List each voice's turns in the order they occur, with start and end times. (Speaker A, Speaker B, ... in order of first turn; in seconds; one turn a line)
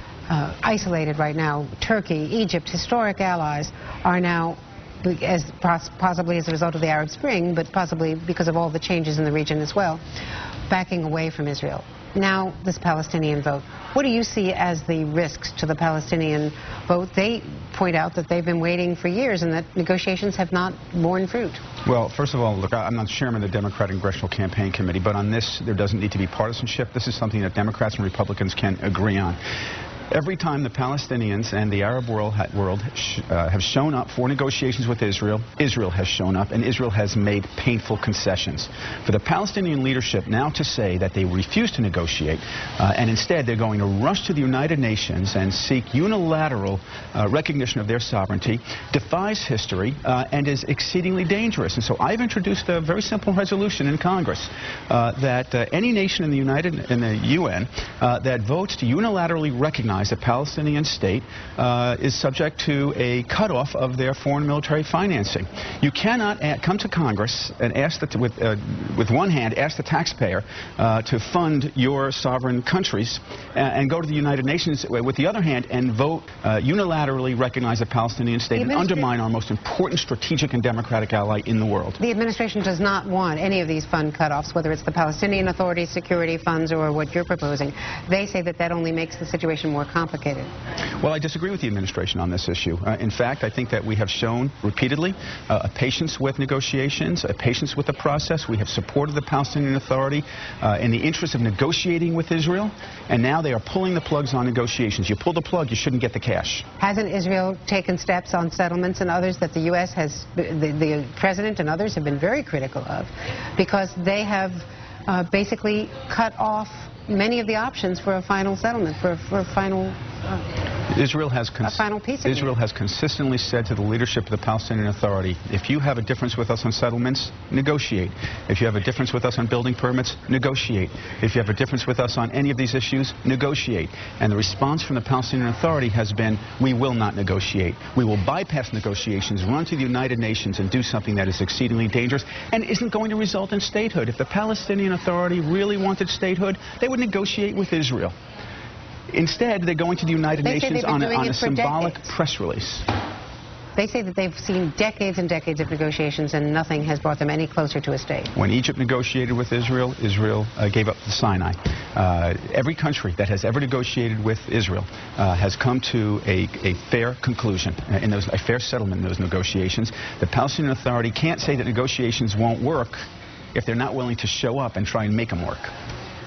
Speaker A: 0.3-10.0
Speaker A: 10.7-21.6
Speaker B: 21.9-29.4
Speaker B: 30.1-82.0
Speaker A: 78.6-79.1
Speaker A: 82.0-90.5
Speaker B: 91.0-106.7
Speaker A: 106.8-120.4
Speaker B: 120.9-148.1
Speaker A: 121.6-122.5
Speaker B: 149.1-152.8
Speaker A: 150.4-152.1
Speaker A: 153.8-158.3
Speaker B: 158.3-173.0
Speaker B: 173.5-175.7